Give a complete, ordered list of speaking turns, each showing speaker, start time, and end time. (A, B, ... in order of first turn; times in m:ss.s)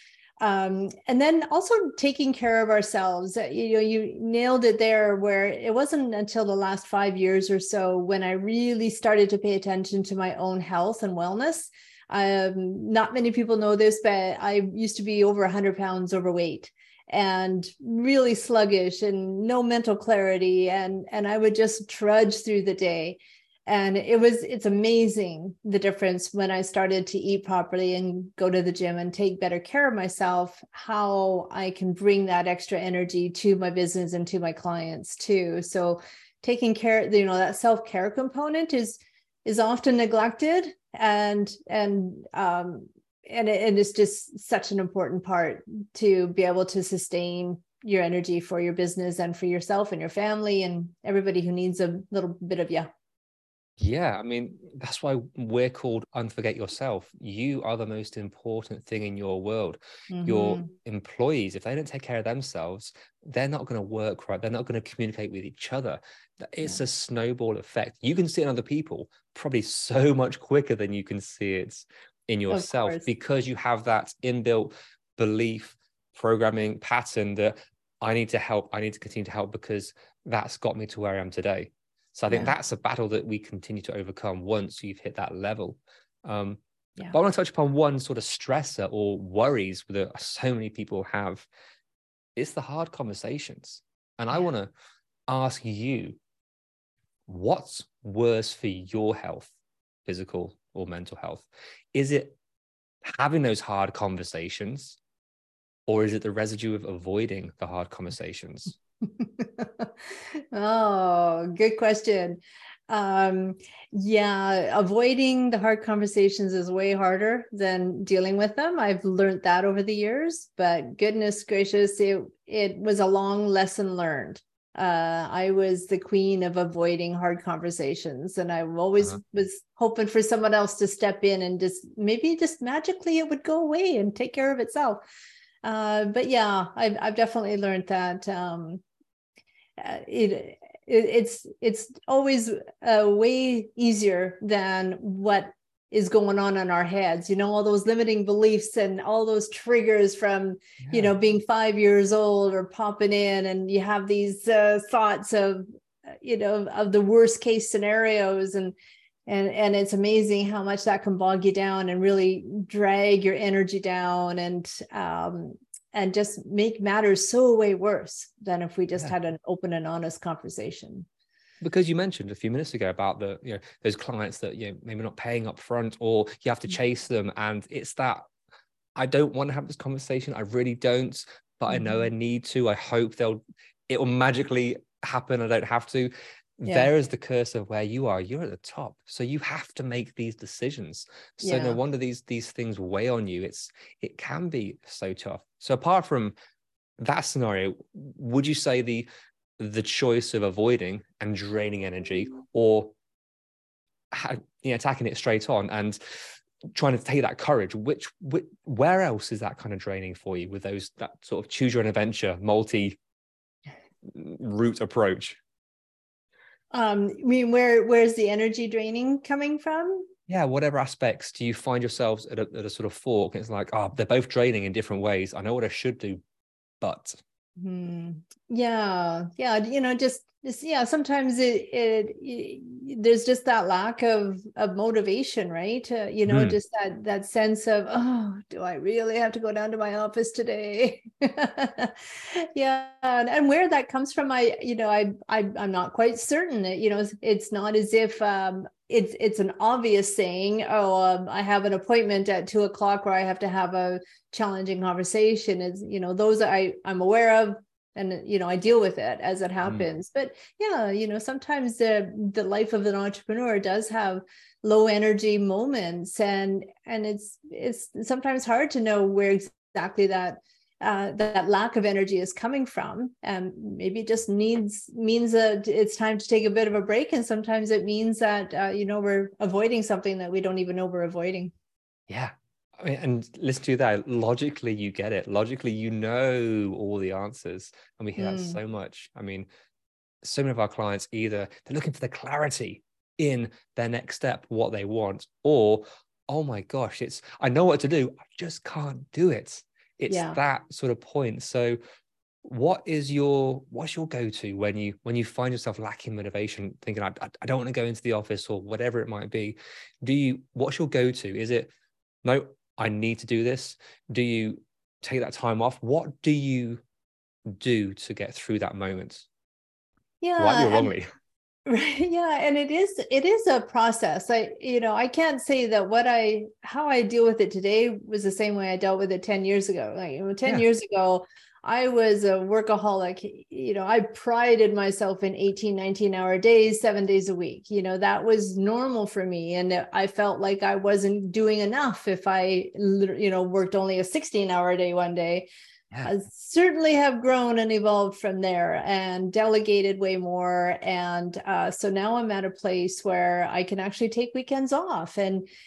0:00.4-0:52.9 A
0:53.8-1:31.5 B
1:00.1-1:00.7 A
1:12.5-1:13.1 A
1:32.4-1:34.7 B
1:35.3-1:36.2 B
1:37.3-1:39.5 B
1:40.1-1:42.4 B
1:43.0-1:45.0 B
1:45.9-1:48.8 B
1:49.2-1:49.9 A
1:50.5-2:15.0 A
2:15.6-2:18.8 A
2:19.8-2:35.6 A
2:30.8-2:31.1 B
2:36.2-2:38.8 A
2:39.3-2:51.1 A
2:51.6-2:58.2 B
2:59.0-3:16.3 B
3:01.7-3:02.1 A
3:11.4-3:11.8 A
3:17.0-3:22.9 B
3:24.1-3:26.2 B
3:26.7-3:33.0 B
3:34.0-3:35.4 B
3:36.7-3:40.1 A
3:40.3-3:46.2 B
3:46.8-3:47.2 B
3:47.6-4:41.5 A
3:56.3-3:56.6 B
4:42.1-4:49.5 B
4:48.2-4:48.6 A
4:50.2-5:01.8 B
5:00.1-5:00.4 A
5:02.4-5:11.7 B
5:12.2-5:16.8 B
5:17.5-5:19.3 B
5:20.2-5:20.9 A
5:20.4-5:21.1 B
5:21.7-5:45.5 A
5:46.0-5:55.5 A